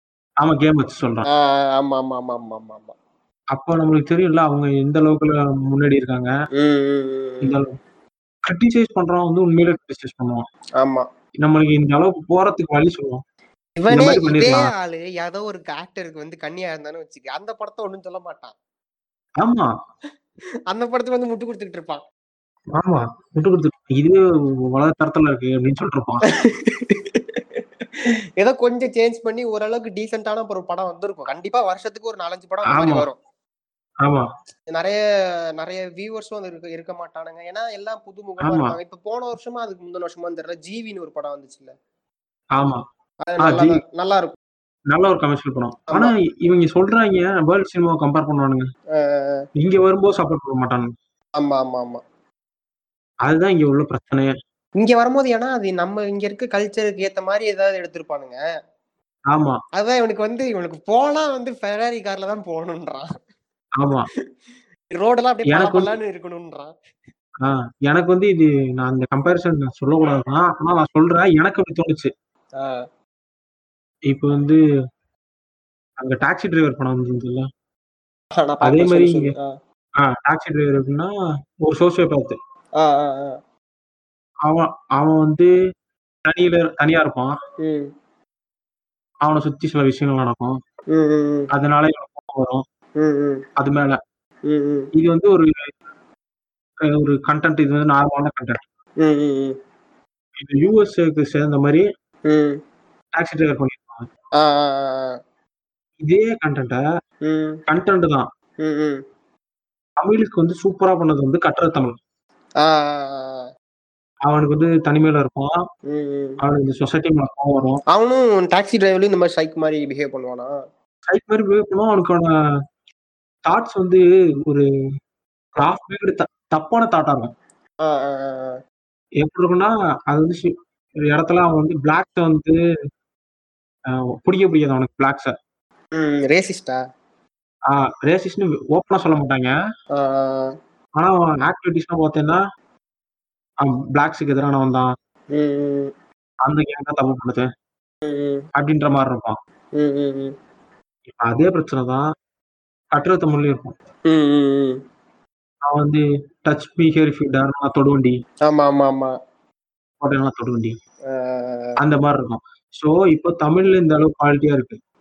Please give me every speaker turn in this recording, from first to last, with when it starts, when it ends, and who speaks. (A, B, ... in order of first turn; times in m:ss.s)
0:00.4-0:01.3 A
0:01.3-0:03.0 B
0:03.5-0:06.3 A
0:06.6-0:07.6 B
0:07.4-0:07.8 A
0:08.4-0:10.4 A
0:10.8-0:11.1 B
0:11.4-0:13.2 A
0:13.8-0:18.5 B
0:13.9-0:14.7 A
0:19.4-0:19.7 A
0:20.7-0:22.0 B
0:22.8-0:26.2 A
0:26.3-0:27.4 B
0:28.4-0:33.2 B
0:32.7-0:33.1 A
0:34.0-0:34.3 A
0:34.7-0:35.0 B
0:35.6-0:41.7 B
0:38.4-0:38.8 A
0:42.6-0:42.8 A
0:43.2-0:44.4 B
0:43.4-0:43.8 A
0:44.9-0:48.7 A
0:48.9-0:49.4 B
0:49.6-0:50.9 A
0:51.4-0:52.0 B
0:53.2-0:54.3 A
0:54.8-0:58.4 B
0:59.3-0:59.6 A
0:59.8-1:03.1 B
1:03.8-1:04.1 A
1:04.9-1:06.7 B
1:05.5-1:05.9 A
1:07.4-1:12.1 A
1:12.6-1:12.8 B
1:14.1-1:14.6 A
1:16.0-1:17.5 A
1:18.4-1:19.5 B
1:18.6-1:19.3 A
1:20.0-1:21.1 A
1:21.6-1:22.4 A
1:22.8-1:23.4 B
1:24.5-1:25.5 A
1:26.3-1:27.4 A
1:27.6-1:27.9 B
1:29.2-1:30.5 A
1:30.9-1:31.5 B
1:31.5-1:32.6 A
1:33.0-1:33.4 B
1:33.6-1:34.0 A
1:34.5-1:34.9 B
1:35.0-1:35.7 A
1:36.8-1:38.6 A
1:39.0-1:39.6 B
1:40.4-1:41.8 A
1:42.3-1:42.6 B
1:43.2-1:44.1 A
1:44.4-1:45.2 B
1:46.0-1:46.8 A
1:47.3-1:47.6 B
1:47.7-1:48.3 A
1:48.6-1:49.0 B
1:50.0-1:52.0 A
1:52.6-1:53.5 B
1:54.3-1:55.5 A
1:55.9-1:56.4 B
1:56.4-1:57.8 A
1:57.9-2:00.5 B
2:01.1-2:02.3 A
2:03.5-2:04.7 A
2:05.6-2:07.3 A
2:07.8-2:08.6 B
2:09.2-2:10.5 A
2:11.0-2:12.6 A
2:14.2-2:15.3 A
2:16.0-2:16.8 B
2:17.7-2:19.6 A
2:20.0-2:20.5 B
2:21.0-2:22.4 A
2:23.6-2:24.9 A
2:25.3-2:25.9 B
2:26.4-2:27.5 A
2:28.0-2:28.4 B
2:28.6-2:29.4 A
2:29.8-2:30.3 B
2:31.1-2:32.0 A
2:32.9-2:33.7 A
2:34.1-2:34.8 B
2:35.7-2:38.2 A
2:38.5-2:39.1 B
2:40.0-2:40.8 A
2:41.1-2:41.8 B
2:41.8-2:44.8 A